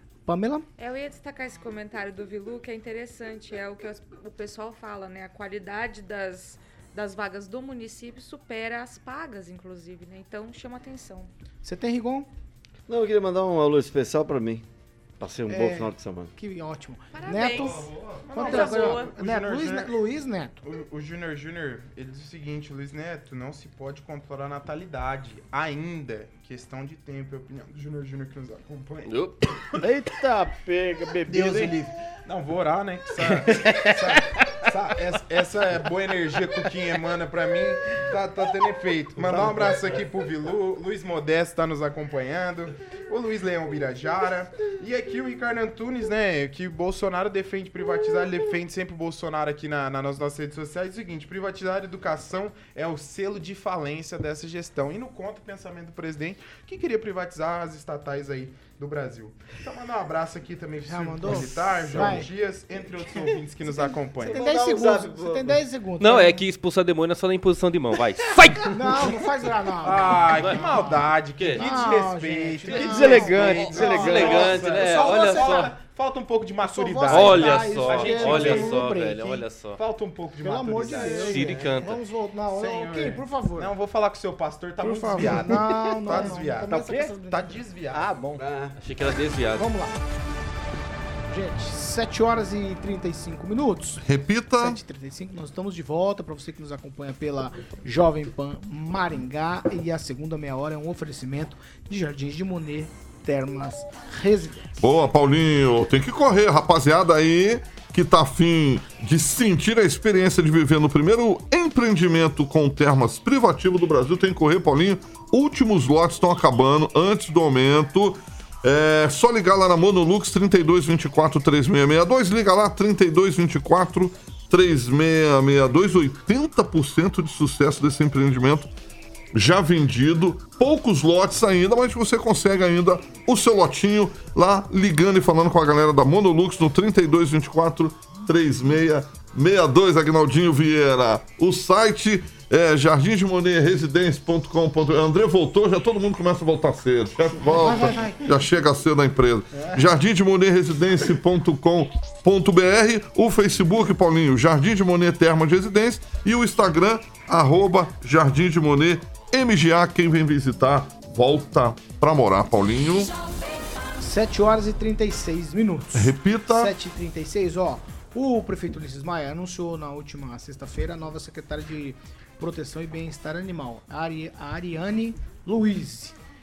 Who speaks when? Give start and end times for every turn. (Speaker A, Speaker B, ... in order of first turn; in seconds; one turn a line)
Speaker A: 0.3-0.7
Speaker B: 0.8-11.3
Speaker A: 11.6-12.3
Speaker C: 12.9-14.7
Speaker C: 15.2-16.3
Speaker A: 15.5-20.6
Speaker B: 17.1-19.1
Speaker D: 17.9-18.2
Speaker E: 18.2-19.9
Speaker E: 20.6-29.2
Speaker F: 29.1-29.6
Speaker G: 29.8-31.8
Speaker E: 31.3-64.4
Speaker G: 33.3-34.5
Speaker A: 60.8-62.3
Speaker A: 63.7-66.4
Speaker C: 64.2-65.6
Speaker F: 66.0-69.2
Speaker A: 68.7-75.7
Speaker E: 69.8-78.9
Speaker F: 70.3-71.7
Speaker F: 72.7-75.7
Speaker G: 72.8-74.3
Speaker A: 76.6-79.5
Speaker F: 77.1-79.8
Speaker E: 79.8-81.5
Speaker A: 80.4-83.7
Speaker C: 80.8-81.8
Speaker F: 81.1-82.0
Speaker E: 82.5-88.2
Speaker A: 84.8-87.6
Speaker G: 84.8-87.1
Speaker G: 87.9-88.4
Speaker C: 88.4-88.8
Speaker F: 88.8-89.7
Speaker A: 89.5-90.0
Speaker A: 91.3-94.0
Speaker D: 94.0-94.8
Speaker A: 94.6-104.8
Speaker D: 104.8-128.7
Speaker D: 129.3-163.1
Speaker A: 147.4-148.3
Speaker A: 164.0-176.2
Speaker D: 165.9-166.7